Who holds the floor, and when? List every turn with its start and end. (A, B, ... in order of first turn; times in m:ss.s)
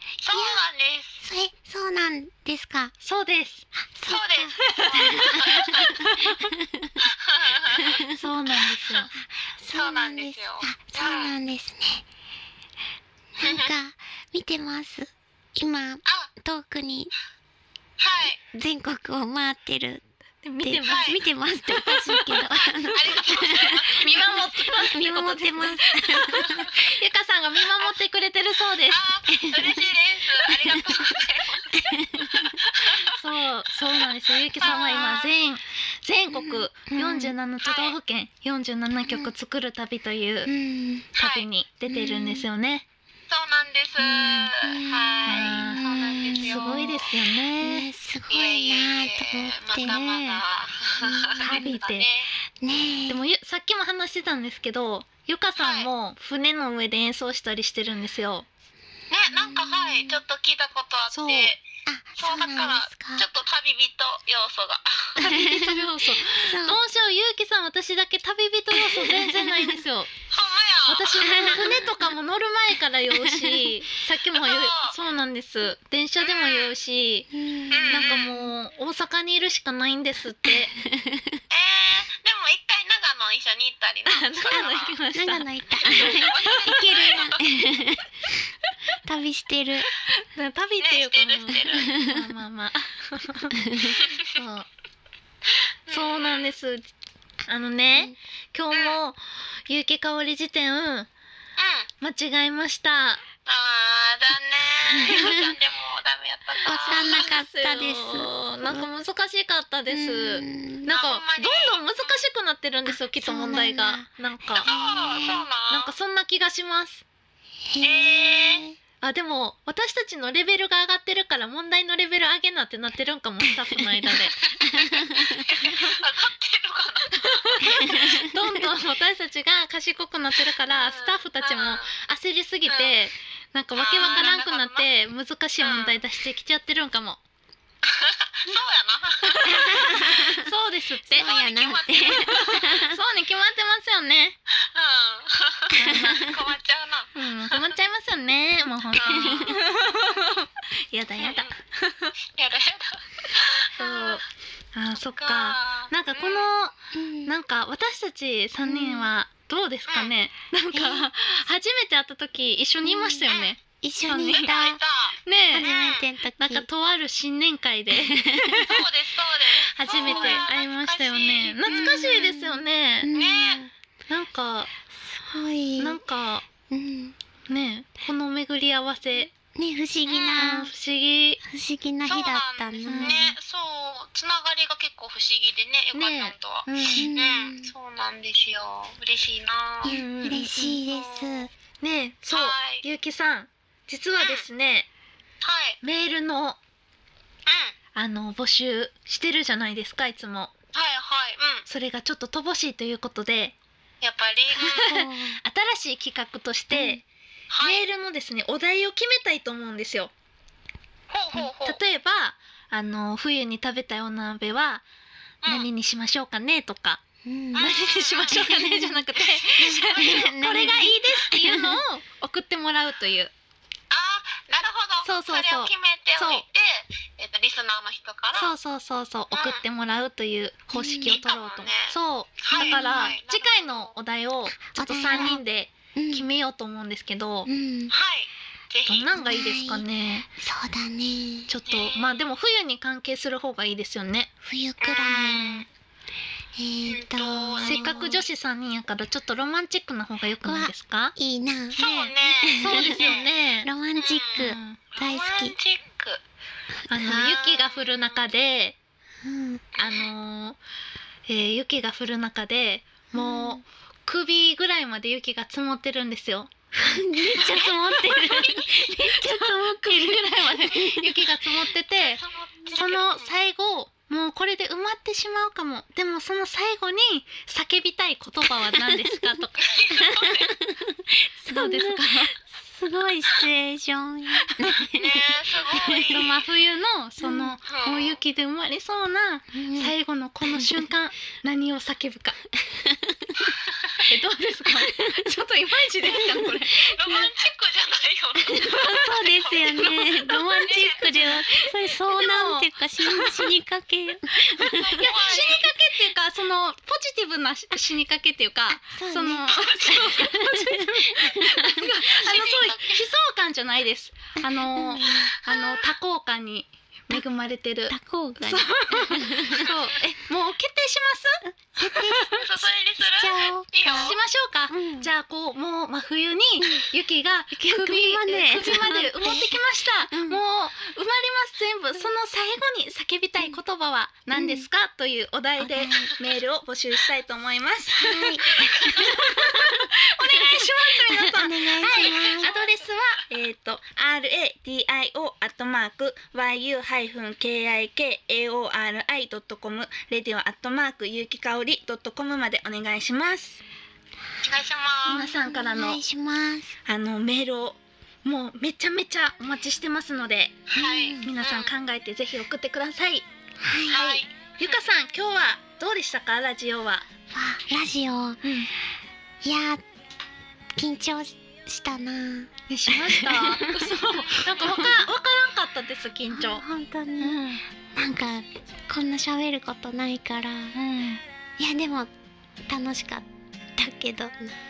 0:00.2-0:01.2 A
0:00.3-0:00.6 B
0:01.2-0:02.9 B
0:03.0-0:03.7 C
0:03.8-0:07.0 B
0:04.1-0:06.0 A
0:04.6-0:06.5 C
0:07.0-0:08.0 A
0:07.7-0:09.1 C
0:09.2-0:12.1 B
0:09.7-0:11.3 A
0:13.4-0:17.1 B
0:13.4-0:13.7 A
0:16.1-0:16.3 A
0:18.0-0:18.4 A
0:18.5-0:20.0 B
0:20.4-0:21.2 C
0:20.6-0:23.8 B
0:20.8-0:21.2 A
0:21.7-0:22.5 C
0:22.8-0:24.3 A
0:23.3-0:29.0 C
0:24.7-0:26.7 B
0:28.9-0:31.8 A
0:29.3-0:29.8 B
0:30.5-0:31.1 B
0:31.7-0:32.6 B
0:32.3-0:40.5 C
0:32.6-0:33.1 A
0:34.6-0:35.3 A
0:36.3-0:37.3 B
0:37.6-0:38.0 A
0:39.1-0:39.3 B
0:40.5-0:41.1 B
0:41.2-0:42.9 C
0:41.2-0:41.5 A
0:41.9-0:42.5 B
0:43.3-0:47.1 A
0:44.0-0:44.5 C
0:44.6-0:46.9 B
0:45.3-0:47.9 C
0:47.6-0:50.0 B
0:48.3-0:52.3 A
0:49.8-0:50.4 C
0:51.0-0:51.7 B
0:51.4-0:52.1 C
0:52.6-0:53.2 B
0:53.1-0:58.5 C
0:55.6-0:55.9 A
0:59.1-1:01.6 A
0:59.4-1:00.2 B
1:01.1-1:01.5 C
1:01.9-1:03.3 B
1:02.2-1:05.2 A
1:05.2-1:10.1 C
1:05.2-1:06.8 B
1:08.7-1:09.8 B
1:10.3-1:11.9 A
1:10.9-1:17.3 C
1:11.2-1:11.8 B
1:13.1-1:13.7 B
1:14.4-1:15.0 A
1:16.2-1:16.7 A
1:17.3-1:18.5 B
1:17.7-1:18.3 A
1:17.9-1:20.8 C
1:20.5-1:21.4 B
1:21.5-1:25.0 A
1:24.1-1:27.1 C
1:25.2-1:28.3 B
1:25.9-1:27.4 A
1:29.0-1:29.9 B
1:30.2-1:34.7 C
1:30.8-1:31.9 A
1:31.8-1:32.2 B
1:33.7-1:34.0 B
1:33.9-1:34.4 A
1:35.5-1:36.5 A
1:35.9-1:36.9 C
1:37.5-1:41.1 C
1:38.7-1:39.0 A
1:41.6-1:41.9 A
1:42.0-1:43.2 C
1:43.5-1:47.3 A
1:44.9-1:45.5 B
1:45.0-1:45.4 C
1:46.6-1:48.9 B
1:46.7-1:54.7 C
1:49.9-1:50.9 B
1:50.9-1:52.3 A
1:52.9-1:55.4 B
1:54.6-1:55.9 A
1:55.7-1:57.0 C
1:57.7-1:58.8 B
1:57.8-1:58.6 A
1:59.0-2:04.5 C
2:04.5-2:07.9 A
2:04.7-2:05.4 B
2:07.2-2:17.2 C
2:07.6-2:08.4 B
2:10.7-2:11.9 A
2:12.7-2:12.9 A
2:13.8-2:14.9 A
2:14.0-2:14.3 B
2:15.6-2:15.9 A
2:17.8-2:20.3 A
2:19.2-2:21.3 C
2:19.5-2:20.5 B
2:21.1-2:23.0 B
2:21.2-2:22.7 A
2:22.1-2:24.4 C
2:24.6-2:27.8 A
2:25.7-2:26.4 C
2:25.8-2:26.4 B
2:27.1-2:32.1 C
2:29.0-2:29.6 A
2:29.2-2:29.4 B
2:31.2-2:31.5 A
2:32.3-2:34.2 A
2:33.8-2:34.2 C
2:34.8-2:36.7 C
2:35.0-2:36.5 A
2:36.9-2:37.3 B
2:37.3-2:44.6 C
2:38.6-2:39.1 B
2:40.7-2:41.1 B
2:42.8-2:43.3 B
2:43.3-2:43.5 A
2:43.8-2:44.8 B
2:44.3-2:46.1 A
2:45.2-2:45.7 C
2:45.5-2:46.7 B
2:46.4-2:48.8 C
2:47.9-2:48.7 B
2:48.6-2:52.1 A
2:49.7-2:53.1 C
2:49.9-2:50.5 B
2:51.7-2:53.7 B
2:53.1-2:53.7 A
2:54.1-2:54.7 C
2:55.1-2:56.0 B
2:55.8-2:56.4 C
2:56.7-2:57.2 B
2:57.5-2:59.3 C
2:59.6-3:00.7 B
3:00.1-3:00.6 A
3:00.3-3:01.4 C
3:01.4-3:03.3 B
3:02.1-3:10.0 A
3:02.9-3:03.3 C
3:05.9-3:07.1 C
3:07.0-3:07.7 B
3:09.8-3:11.5 B
3:09.9-3:10.8 C
3:10.9-3:11.5 A
3:11.8-3:14.9 C
3:12.3-3:12.8 A
3:14.2-3:14.4 A
3:15.4-3:15.8 A
3:15.8-3:16.6 C
3:17.5-3:17.8 A
3:18.0-3:20.5 C
3:20.7-3:21.6 A
3:21.7-3:23.6 C
3:24.0-3:25.0 A
3:24.6-3:27.0 C
3:24.6-3:25.4 B
3:26.7-3:27.0 B
3:27.5-3:27.8 A
3:27.6-3:30.1 C
3:31.1-3:31.8 A
3:31.6-3:34.8 C
3:35.5-3:37.0 C
3:37.2-3:37.7 B
3:37.6-3:40.2 A
3:37.6-3:43.3 C
3:38.3-3:39.0 B
3:39.6-3:41.8 B
3:43.9-3:48.5 A
3:45.0-3:46.4 C
3:48.4-3:57.5 C
3:49.3-3:49.6 A
3:50.7-3:51.2 B
3:51.1-3:53.9 A
3:52.5-3:53.2 B
3:54.7-3:55.4 B
3:56.0-3:56.3 B
3:57.5-3:57.9 B
3:57.9-3:59.1 A
3:58.9-4:00.3 C
3:59.1-3:59.8 B
4:00.4-4:01.5 B
4:01.5-4:04.3 C
4:01.7-4:02.2 A
4:04.4-4:05.6 B
4:04.8-4:05.7 A
4:06.6-4:08.2 B
4:06.9-4:08.2 A
4:07.6-4:11.2 C
4:10.4-4:15.6 B
4:11.7-4:13.7 C
4:11.8-4:13.3 A
4:14.0-4:16.2 A
4:14.4-4:14.8 C
4:16.9-4:18.8 C
4:16.9-4:17.3 B
4:17.0-4:18.1 A
4:19.2-4:19.6 B
4:19.8-4:20.1 A
4:19.8-4:20.6 C
4:21.3-4:39.7 C
4:23.1-4:23.6 B
4:26.8-4:31.3 B
4:27.3-4:28.8 A
4:32.0-4:33.3 A
4:38.7-4:39.2 B
4:39.6-4:40.6 A
4:40.0-4:46.3 B
4:41.5-4:42.4 C
4:44.5-4:44.8 C
4:45.0-4:46.3 A
4:46.1-4:52.4 C
4:47.2-4:47.6 B
4:47.7-4:48.2 A
4:49.5-4:49.9 B
4:50.4-4:50.9 B
4:52.7-4:53.4 B
4:54.0-4:57.3 C
4:54.8-4:55.3 B
4:56.0-4:56.5 B
4:56.8-5:01.4 A
4:58.4-5:05.1 B
4:58.6-5:03.5 C
5:04.5-5:22.4 C
5:04.6-5:05.7 A
5:08.7-5:12.0 B
5:12.0-5:13.0 A
5:14.4-5:15.3 B
5:15.0-5:15.8 A
5:17.9-5:19.7 B
5:21.8-5:22.4 B
5:22.3-5:24.2 A
5:23.0-5:24.2 B
5:24.0-5:53.6 C
5:24.7-5:25.1 B
5:26.6-5:26.9 B
5:27.6-5:30.4 B
5:34.3-5:34.7 B
5:35.6-5:36.1 B
5:37.9-5:39.8 B
5:38.7-5:39.1 A
5:40.4-5:42.5 B
5:42.0-5:42.7 A
5:54.4-5:55.3 A
5:55.1-5:56.0 C
5:55.1-5:56.7 B
5:56.9-6:03.3 C
6:00.7-6:01.7 A
6:03.6-6:04.0 B
6:03.9-6:07.1 C
6:03.9-6:04.8 A
6:07.3-6:08.4 B
6:08.4-6:08.7 C
6:09.4-6:09.8 B
6:10.8-6:13.9 B
6:12.7-6:16.6 C
6:14.6-6:15.0 B
6:16.3-6:20.8 B
6:17.2-6:17.6 C
6:20.8-6:21.2 C
6:21.6-6:22.1 B
6:22.7-6:24.6 B